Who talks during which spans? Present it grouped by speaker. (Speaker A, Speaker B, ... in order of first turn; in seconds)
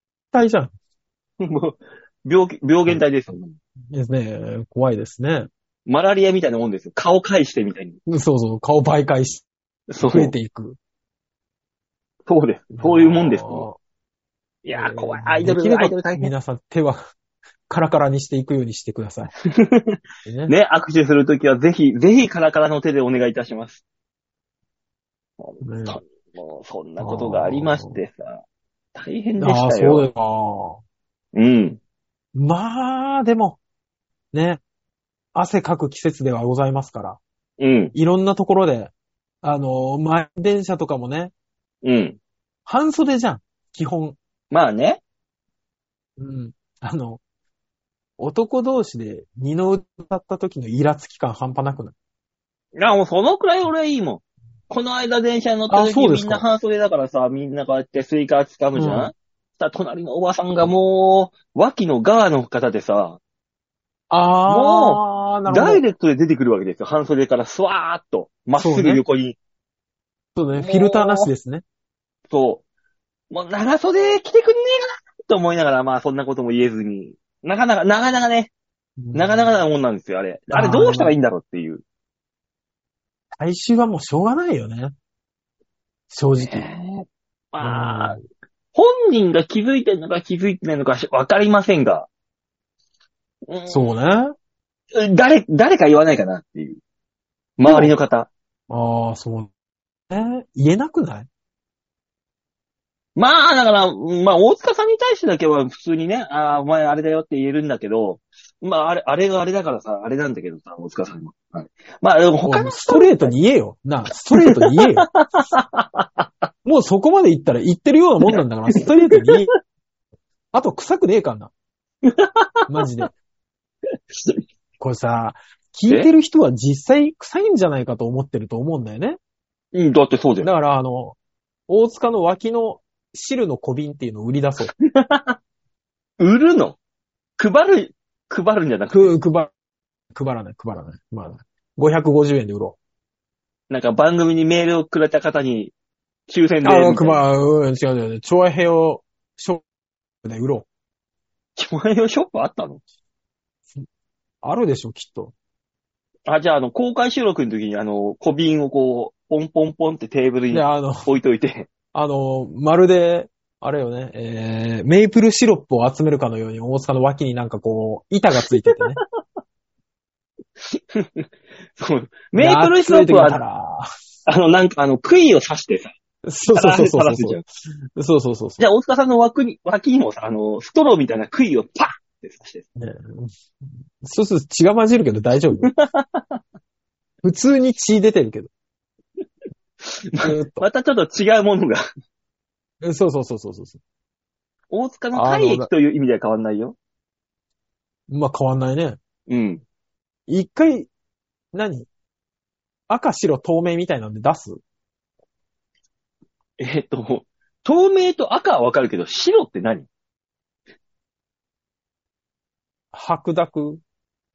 Speaker A: 0.3-0.7, 3.9-5.5, 8.1-9.4, 10.0-10.8, 12.8-13.8, 14.8-17.1, 17.7-19.3, 20.3-20.5, 25.6-26.0, 27.0-28.0, 29.4-30.8, 32.3-33.6, 34.3-34.6, 35.3-37.2, 37.9-38.9, 39.4-41.3, 42.6-44.2, 46.2-47.2, 48.2-51.9, 55.7-56.4, 58.8-59.1, 64.1-65.8, 68.6-69.0, 70.4-71.6, 79.0-79.6, 80.5-81.1, 83.4-84.9, 86.1-86.6, 87.6-88.2, 93.7-94.3, 97.6-97.9, 98.7-99.5, 100.1-101.3, 112.5-115.1, 116.6-119.5, 120.5-121.5, 122.7-123.1, 124.8-129.2, 130.4-131.2, 131.7-134.7, 138.9-139.5, 140.1-142.8, 146.6-149.6, 150.2-150.7, 154.4-155.3, 160.5-161.1, 161.9-169.0, 172.3-173.9, 176.2-177.4, 178.0-178.6, 182.8-185.7, 187.2-188.5, 190.2-190.6, 192.8-193.8, 195.1-195.7, 198.1-199.0, 200.3-200.9, 201.5-201.9, 202.9-204.6, 212.9-213.8
Speaker B: 1.4-3.6, 5.9-8.0, 9.9-10.3, 12.3-13.7, 14.6-16.3, 19.6-23.8, 25.4-28.4, 28.9-30.1, 31.4-31.8, 37.6-37.9, 41.8-42.2, 44.5-45.0, 52.8-63.2, 64.5-69.4, 70.5-71.3, 72.3-72.6, 73.3-78.5, 79.1-81.8, 86.4-88.2, 88.7-92.1, 93.5-94.0, 94.9-96.8, 97.6-98.3, 103.2-113.3, 114.3-116.3, 118.3-119.4, 122.0-122.7, 124.1-124.4, 129.7-130.5, 134.6-135.4, 136.2-136.8, 137.4-139.2, 143.7-145.7, 146.3-147.2, 151.6-152.8, 156.3-161.7, 170.7-173.4, 174.3-175.9, 176.6-177.4, 178.6-182.6, 185.6-186.4, 189.8-191.8, 194.7-196.8, 199.3-199.6, 206.6-209.9